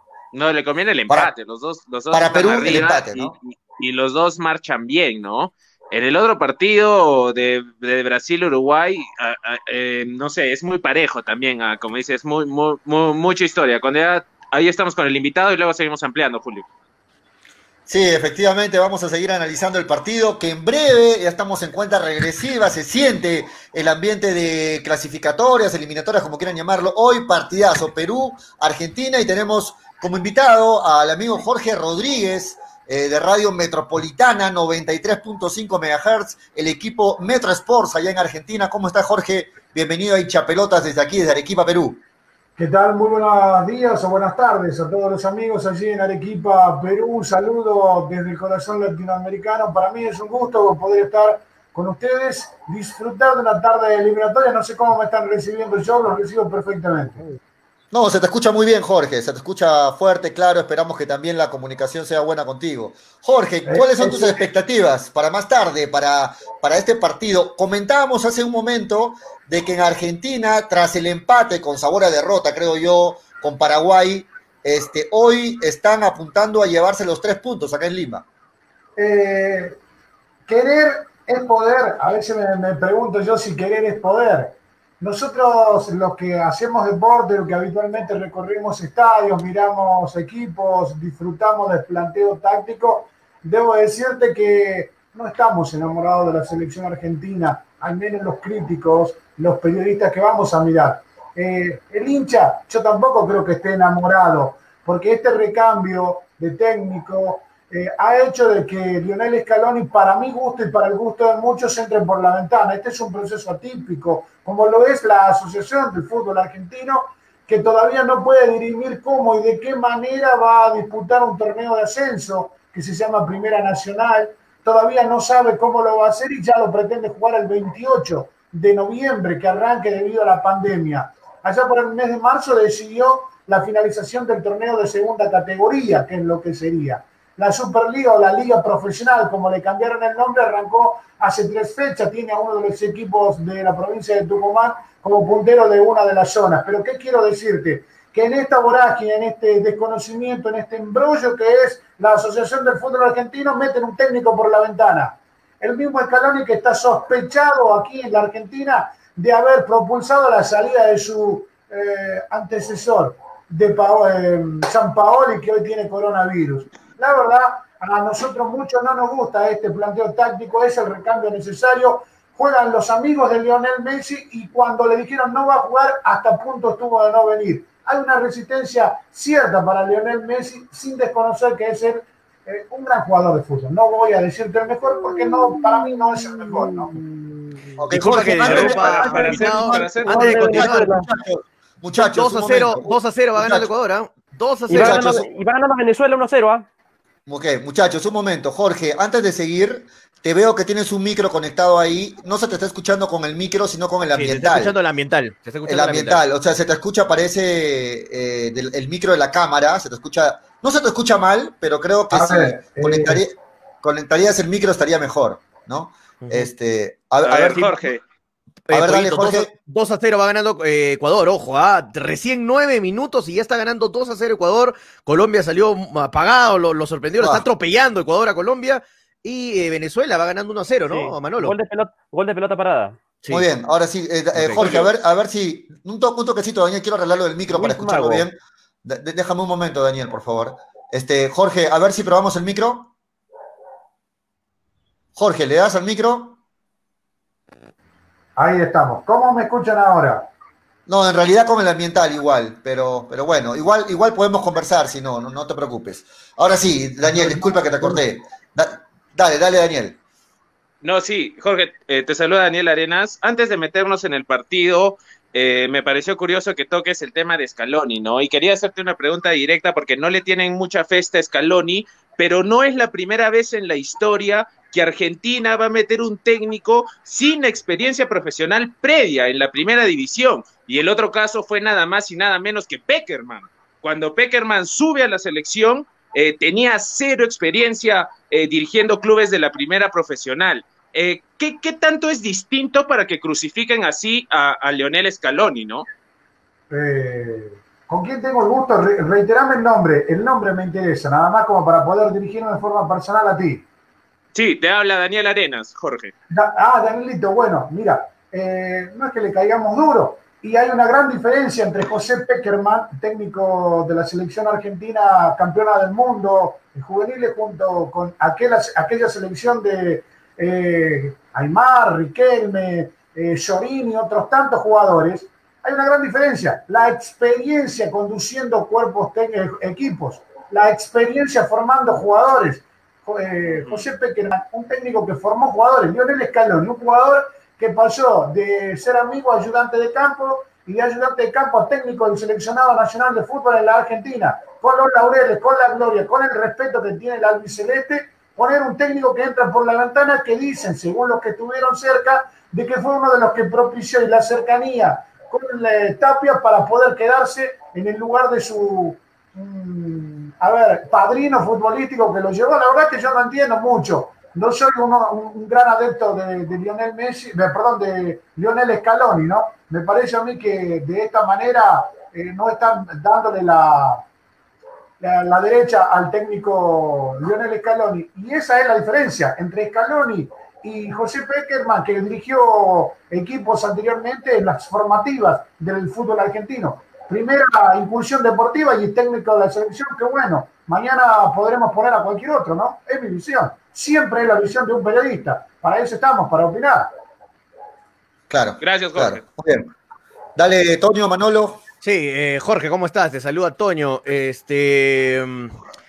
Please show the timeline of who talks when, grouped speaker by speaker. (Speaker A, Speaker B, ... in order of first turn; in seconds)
Speaker A: 0.3-16.7, 188.4-190.3, 217.2-218.0, 260.8-295.9, 304.3-306.1, 398.6-399.2
Speaker B: 2.1-3.3, 17.9-42.0, 57.9-78.2, 187.8-193.7, 194.7-195.3, 197.3-204.7, 205.7-217.8, 218.7-219.5, 227.2-227.5, 233.3-242.9, 245.2-246.4, 250.9-260.0, 398.3-399.7, 400.4-401.6
Speaker C: 42.6-57.2, 63.7-64.4, 79.0-79.8, 80.5-187.0, 212.1-213.2, 248.4-250.3, 257.1-258.0, 296.7-303.6, 306.3-374.1, 375.0-396.9
Speaker D: 187.9-190.9, 192.0-195.2, 204.1-206.2, 216.2-216.5, 218.7-231.6, 234.3-234.7, 401.8-405.6
Speaker E: 189.2-189.5, 190.1-191.1, 194.7-196.7, 230.9-233.0, 234.6-234.9, 237.5-238.3